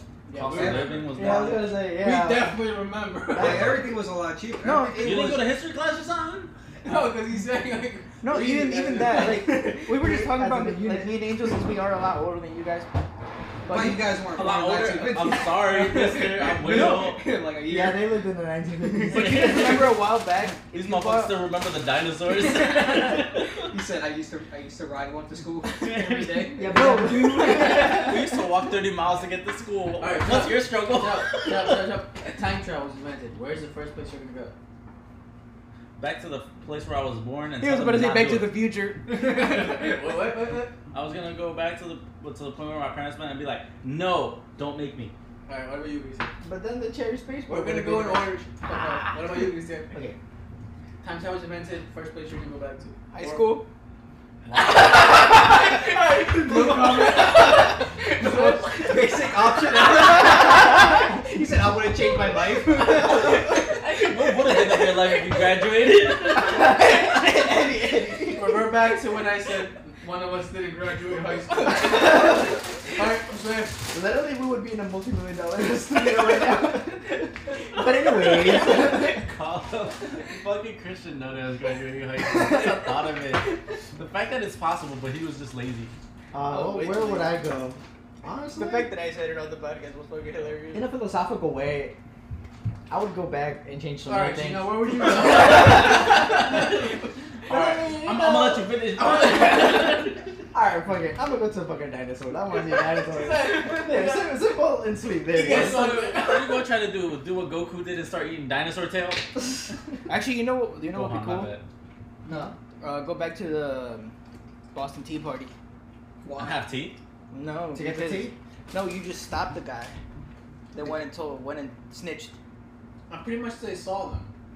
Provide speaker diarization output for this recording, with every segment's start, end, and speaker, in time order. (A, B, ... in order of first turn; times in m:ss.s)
0:00.3-0:00.9 A
0:00.3-0:01.7 B
0:00.4-0:03.8 C
0:00.5-0:01.0 D
0:01.1-0:02.6 E
0:03.3-0:05.5 D
0:04.6-0:05.4 A
0:05.0-0:06.5 B
0:06.8-0:09.7 C
0:08.2-0:12.9 A
0:09.1-0:11.3 E
0:13.6-0:14.1 A
0:13.7-0:18.1 D
0:14.3-0:17.2 B
0:17.6-0:19.7 E
0:19.1-0:20.0 B
0:19.1-0:21.4 A
0:20.7-0:23.7 B
0:23.6-0:25.9 D
0:25.7-0:26.6 B
0:25.9-0:27.0 C
0:26.5-0:28.4 E
0:26.7-0:28.0 A
0:27.4-0:31.9 B
0:30.0-0:34.5 C
0:36.0-0:38.6 B
0:37.6-0:40.0 A
0:39.1-0:40.7 C
0:40.9-0:45.1 B
0:45.5-0:46.3 C
0:46.4-0:48.3 E
0:47.5-0:49.9 C
0:49.9-0:50.2 E
0:51.0-0:53.6 C
0:53.1-0:53.6 A
0:54.4-0:55.3 B
0:54.5-0:58.8 C
0:56.5-1:03.4 D
1:03.2-1:07.0 B
1:06.4-1:08.7 E
1:08.2-1:13.9 C
1:13.9-1:19.2 E
1:17.9-1:25.9 B
1:26.3-1:28.9 E
1:26.5-1:27.3 C
1:28.5-1:30.9 A
1:30.7-1:32.0 E
1:32.9-1:35.7 E
1:34.0-1:36.9 C
1:36.2-1:36.8 B
1:37.4-1:40.3 B
1:37.5-1:45.9 E
1:42.5-1:44.4 C
1:45.2-1:46.7 C
1:45.4-1:49.3 B
1:50.1-1:51.5 A
1:50.9-1:51.6 B
1:52.2-1:52.5 D
1:52.3-1:52.5 E
1:52.8-1:54.1 A
1:54.7-1:55.5 A
1:56.2-1:56.6 D
1:56.3-1:57.0 B
1:57.3-2:00.0 A
1:57.7-1:58.4 E
2:00.7-2:02.3 A
2:03.1-2:04.3 C